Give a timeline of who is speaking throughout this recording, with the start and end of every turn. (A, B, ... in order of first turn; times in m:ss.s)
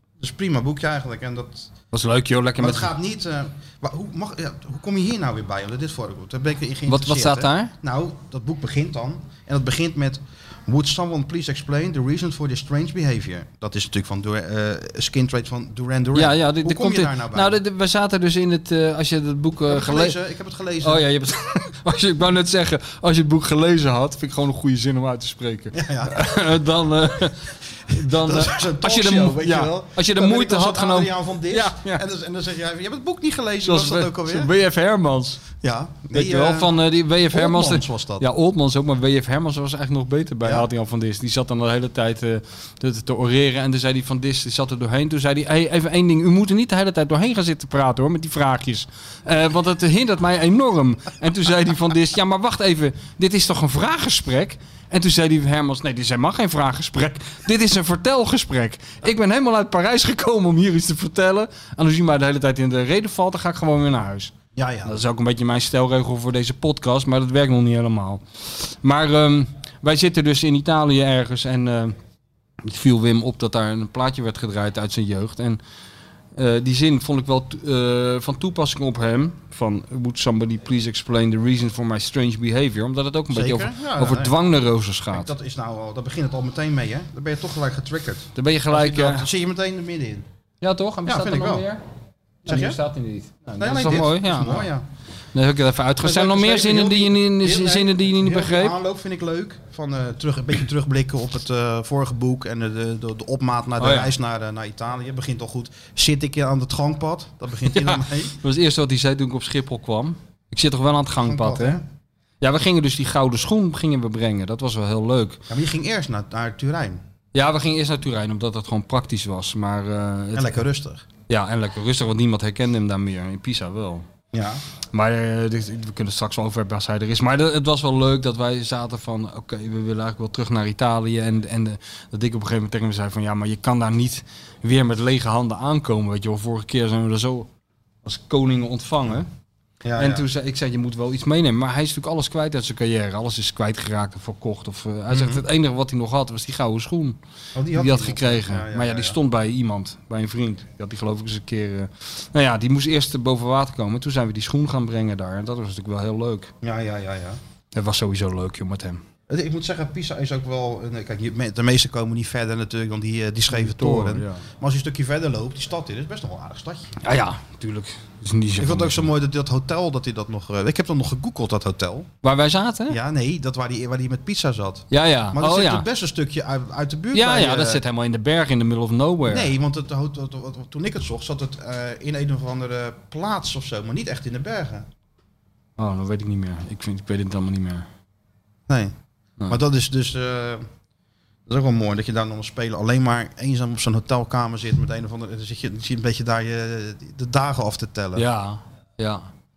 0:00.2-0:01.7 A
0:01.9-0:02.9 B
0:02.6-0:17.6 A
0:06.9-0:07.7 B
0:16.2-0:20.2 B
0:19.7-0:21.0 A
0:20.8-0:32.0 B
0:25.7-0:26.4 A
0:28.0-0:34.5 A
0:33.6-0:35.4 B
0:35.6-0:38.3 A
0:36.1-1:04.3 B
1:04.6-1:05.0 A
1:04.8-1:12.0 B
1:12.6-1:15.6 B
1:16.4-1:25.3 B
1:23.3-1:24.4 A
1:25.1-1:30.3 A
1:28.4-1:29.3 B
1:30.6-1:31.8 B
1:31.0-1:31.7 A
1:32.4-1:32.8 A
1:32.5-1:34.7 B
1:33.5-1:34.8 A
1:35.3-1:38.8 B
1:36.0-1:48.4 A
1:43.8-1:44.1 B
1:47.7-1:51.8 B
1:51.2-1:51.8 A
1:52.4-1:55.4 B
1:55.5-1:57.0 A
1:57.3-2:00.7 B
2:00.3-2:01.0 A
2:01.3-2:04.0 B
2:04.3-2:04.6 A
2:04.9-2:17.5 B
2:18.0-2:19.3 B
2:19.8-2:20.3 A
2:20.0-2:27.2 B
2:25.1-2:25.4 A
2:27.6-2:29.2 A
2:27.7-2:36.5 B
2:36.6-2:37.4 A
2:37.7-2:39.0 B
2:39.3-2:47.0 A
2:43.5-2:44.4 B
2:47.0-2:49.1 B
2:48.6-2:52.1 A
2:52.2-2:53.0 B
2:52.9-2:57.8 A
2:54.9-2:55.9 B
2:57.1-2:59.5 B
2:59.3-3:04.9 A
3:05.8-3:07.9 B
3:08.7-3:09.0 A
3:09.5-3:10.7 A
3:11.5-3:18.3 A
3:18.2-3:19.3 B